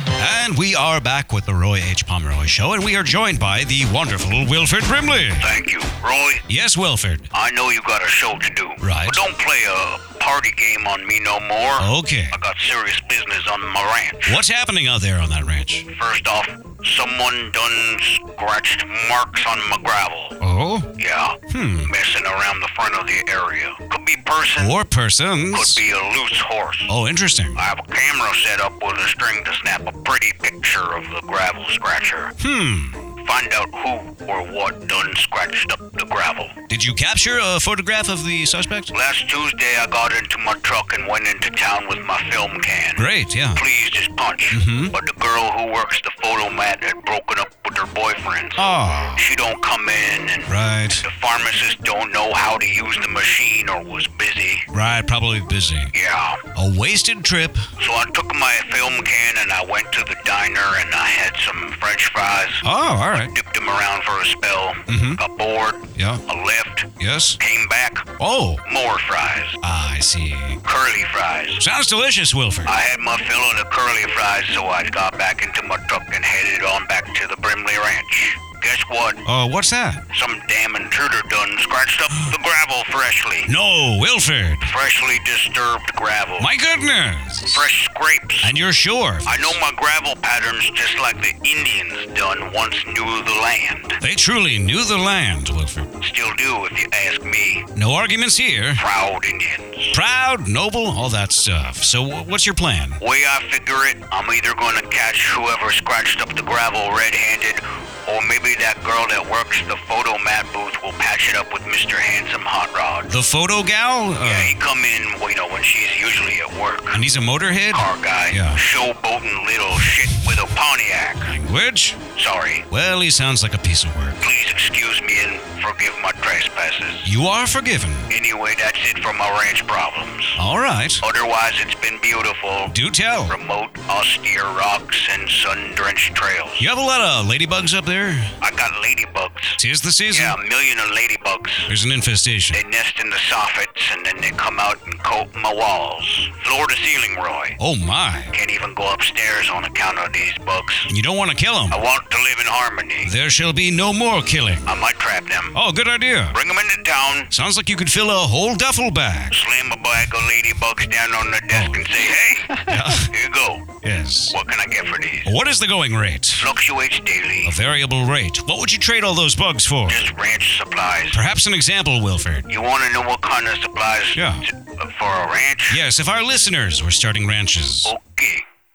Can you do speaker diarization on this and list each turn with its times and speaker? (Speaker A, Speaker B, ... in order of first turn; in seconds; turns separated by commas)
Speaker A: 0.2-5.5, Speaker B: 5.4-6.4, Speaker A: 6.5-7.3, Speaker B: 7.3-14.4, Speaker A: 8.8-9.2, Speaker A: 11.8-12.3, Speaker A: 14.3-15.9, Speaker B: 15.9-20.4, Speaker A: 20.4-20.9, Speaker B: 21.0-24.7, Speaker A: 21.5-21.9, Speaker A: 24.6-25.8, Speaker B: 25.5-26.9, Speaker A: 26.9-27.6, Speaker B: 27.6-32.3, Speaker A: 32.4-33.0, Speaker B: 33.2-36.5, Speaker A: 36.7-38.9, Speaker B: 38.9-54.7, Speaker A: 43.0-43.6, Speaker A: 44.5-44.9, Speaker A: 48.6-49.3, Speaker A: 50.5-51.0, Speaker A: 54.7-55.9, Speaker B: 55.9-56.4, Speaker A: 56.5-57.6, Speaker B: 57.8-62.6, Speaker A: 62.6-63.3, Speaker B: 63.3-68.1, Speaker A: 64.9-65.2, Speaker A: 66.0-66.2, Speaker A: 67.0-67.4, Speaker A: 68.2-68.6, Speaker B: 68.7-69.6, Speaker A: 69.6-70.6, Speaker B: 70.7-71.6, Speaker A: 71.6-72.7, Speaker B: 72.7-79.2, Speaker A: 79.2-80.0, Speaker B: 80.1-83.5, Speaker A: 83.5-84.7, Speaker B: 84.6-86.5, Speaker A: 86.4-87.7, Speaker B: 87.5-88.5, Speaker A: 88.4-89.6, Speaker B: 89.3-94.0, Speaker A: 94.0-95.9, Speaker B: 96.0-97.7, Speaker A: 97.8-98.8, Speaker B: 98.8-100.0, Speaker A: 99.9-103.0, Speaker B: 103.0-113.1, Speaker A: 113.1-114.5, Speaker B: 114.2-117.0, Speaker A: 116.9-118.6, Speaker B: 117.7-121.3, Speaker A: 121.2-122.0, Speaker B: 122.2-122.7, Speaker A: 122.7-124.2, Speaker B: 124.2-127.1, Speaker A: 127.0-128.1, Speaker B: 128.1-130.4, Speaker A: 130.4-131.0, Speaker B: 131.0-132.7, Speaker A: 132.7-133.3, Speaker B: 133.3-136.7, Speaker A: 136.6-138.3, Speaker B: 138.4-139.6, Speaker A: 139.6-140.4, Speaker B: 140.1-141.7, Speaker A: 141.7-142.6, Speaker B: 142.5-147.6, Speaker A: 147.6-148.3, Speaker B: 148.3-150.9, Speaker A: 150.9-151.8, Speaker B: 151.7-153.1, Speaker A: 153.0-154.7, Speaker B: 154.7-155.6, Speaker A: 155.5-156.4, Speaker B: 156.3-157.3, Speaker A: 157.3-159.4, Speaker B: 159.3-163.7, Speaker A: 161.5-161.9, Speaker A: 162.7-163.1, Speaker A: 163.8-164.4, Speaker B: 164.3-165.3, Speaker A: 165.3-166.5, Speaker B: 166.4-167.5, Speaker A: 167.4-170.1, Speaker B: 169.9-171.2, Speaker A: 171.1-172.5, Speaker B: 172.5-175.8, Speaker A: 174.2-174.4, Speaker A: 175.7-177.9, Speaker B: 177.9-178.4